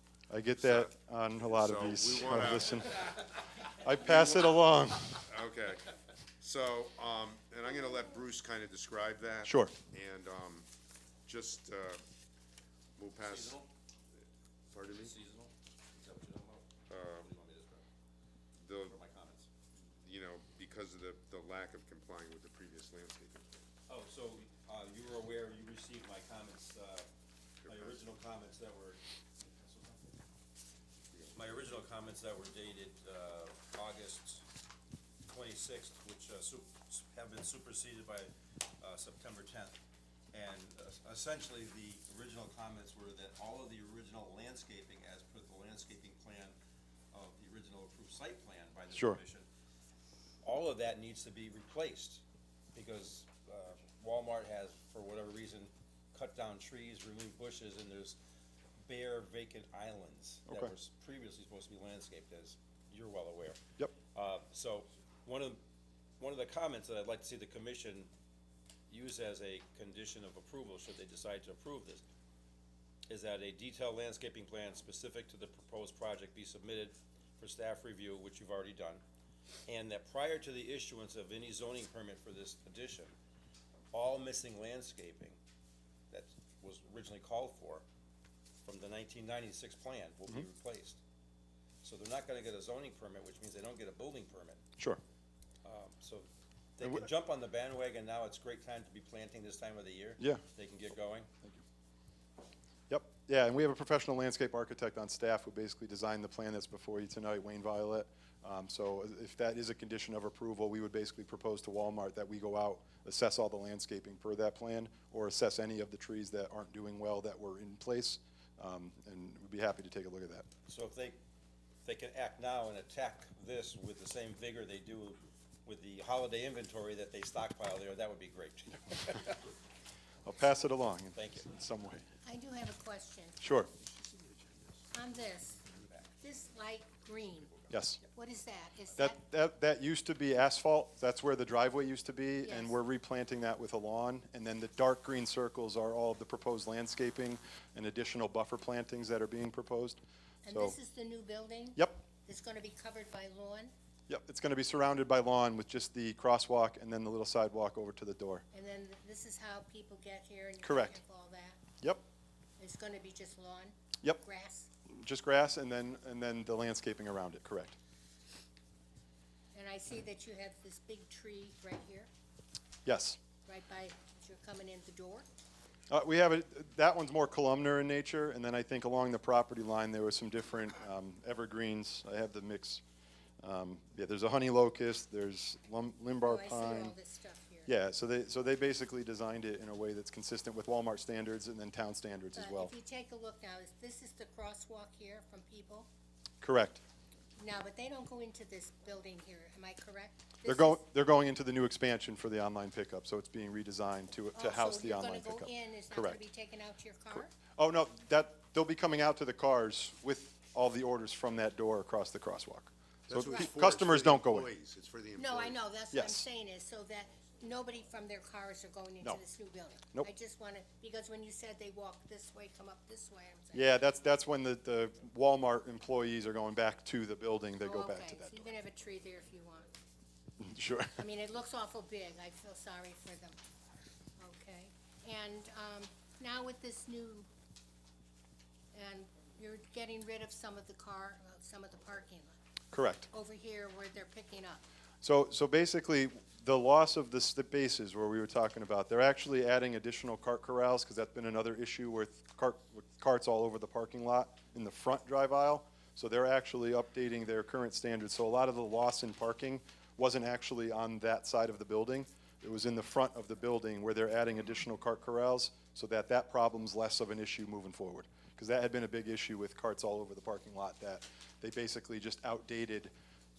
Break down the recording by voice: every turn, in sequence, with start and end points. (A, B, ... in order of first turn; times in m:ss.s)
0:00.3-0:03.1 A
0:00.6-0:00.9 B
0:01.4-0:03.0 B
0:03.7-0:05.2 A
0:05.1-0:05.9 B
0:06.4-0:10.6 B
0:09.4-0:09.7 A
0:11.2-0:12.0 B
0:13.0-0:13.6 B
0:13.2-0:13.7 C
0:14.7-0:15.1 B
0:15.0-0:17.8 C
0:16.9-0:17.3 B
0:18.6-0:19.0 B
0:18.8-0:19.5 C
0:19.8-0:23.6 B
0:23.9-0:27.1 C
0:27.6-0:28.0 B
0:27.7-0:30.2 C
0:31.1-0:31.4 B
0:31.3-0:34.4 C
0:35.2-0:39.8 C
0:40.3-0:46.5 C
0:47.1-0:49.4 C
0:48.9-0:49.2 A
0:50.4-0:58.2 C
0:58.8-1:03.6 C
1:04.1-1:05.6 C
1:06.2-1:08.1 C
1:08.9-1:12.0 C
1:13.1-1:19.0 C
1:19.7-1:23.1 C
1:23.9-1:25.4 C
1:26.1-1:27.8 C
1:28.6-1:31.0 C
1:31.8-1:34.6 C
1:35.6-1:41.3 C
1:42.9-2:00.5 A
2:00.7-2:01.2 C
2:01.8-2:09.4 C
2:10.2-2:12.0 A
2:11.1-2:11.4 C
2:12.2-2:13.4 D
2:13.4-2:13.7 A
2:14.9-2:15.6 D
2:15.6-2:16.1 C
2:16.2-2:19.2 D
2:17.7-2:18.0 A
2:19.0-2:30.0 A
2:22.4-2:22.8 D
2:30.4-2:33.7 D
2:30.5-2:30.7 A
2:34.1-2:38.4 A
2:38.5-2:41.6 D
2:40.6-2:41.0 A
2:42.6-2:44.7 D
2:44.9-2:47.7 A
2:49.5-2:52.1 D
2:52.8-2:53.2 A
2:53.4-2:55.2 D
2:55.9-3:02.8 A
3:03.4-3:07.0 A
3:06.2-3:07.7 D
3:07.6-3:12.7 A
3:12.3-3:15.9 D
3:16.4-3:16.8 A
3:17.4-3:20.8 D
3:20.4-3:26.2 A
3:24.4-3:27.3 D
3:27.1-3:34.5 A
3:33.1-3:35.6 B
3:35.2-3:43.8 D
3:35.9-3:36.2 A
3:43.5-3:48.5 A
3:47.6-3:49.7 D
3:50.4-3:51.0 A
3:51.0-3:53.4 D
3:54.2-3:57.3 D
3:58.7-4:02.3 D
4:02.7-4:03.1 A
4:03.1-4:04.6 D
4:05.0-4:32.9 A